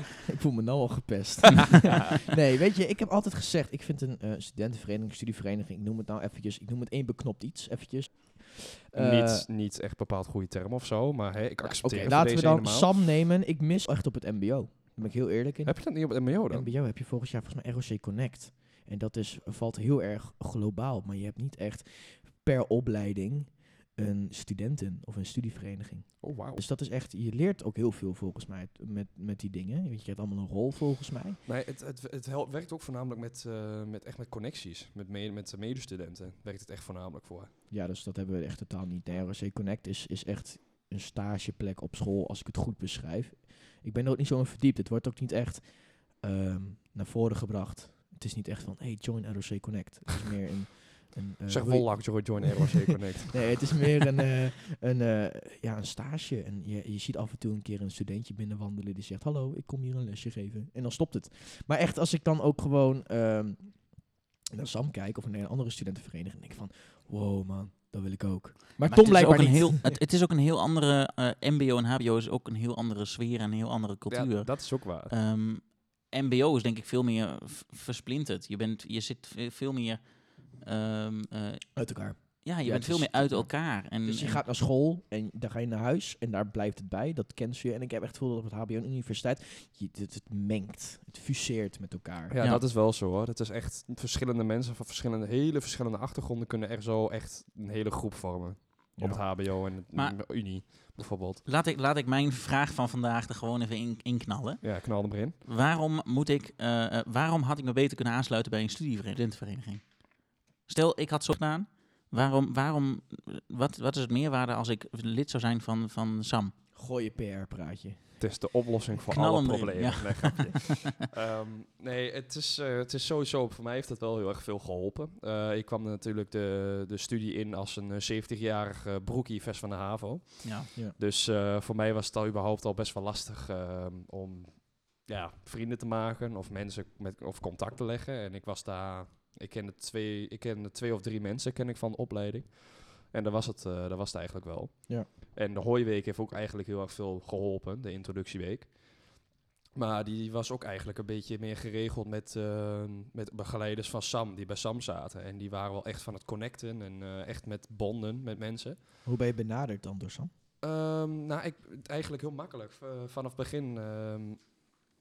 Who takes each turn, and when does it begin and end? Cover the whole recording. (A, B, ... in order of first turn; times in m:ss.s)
0:00.3-0:09.5 A
0:09.0-0:13.0 B
0:11.6-0:31.4 A
0:15.6-0:16.7 B
0:26.2-0:26.6 B
0:31.5-0:37.5 B
0:37.7-1:03.9 A
0:51.5-0:53.8 B
1:04.5-1:10.0 A
1:08.8-1:20.0 C
1:14.1-1:15.1 B
1:20.5-1:21.7 C
1:21.8-1:32.4 A
1:22.3-1:24.4 C
1:32.3-1:41.4 B
1:39.0-1:39.2 A
1:41.5-1:44.9 C
1:44.6-1:45.4 B
1:45.4-1:50.0 C
1:50.7-1:56.5 C
1:56.8-1:58.2 A
1:58.2-2:29.1 B
1:59.1-2:00.7 C
2:10.4-2:10.7 C
2:29.8-2:38.8 B
2:39.0-2:40.3 A
2:40.6-2:44.4 B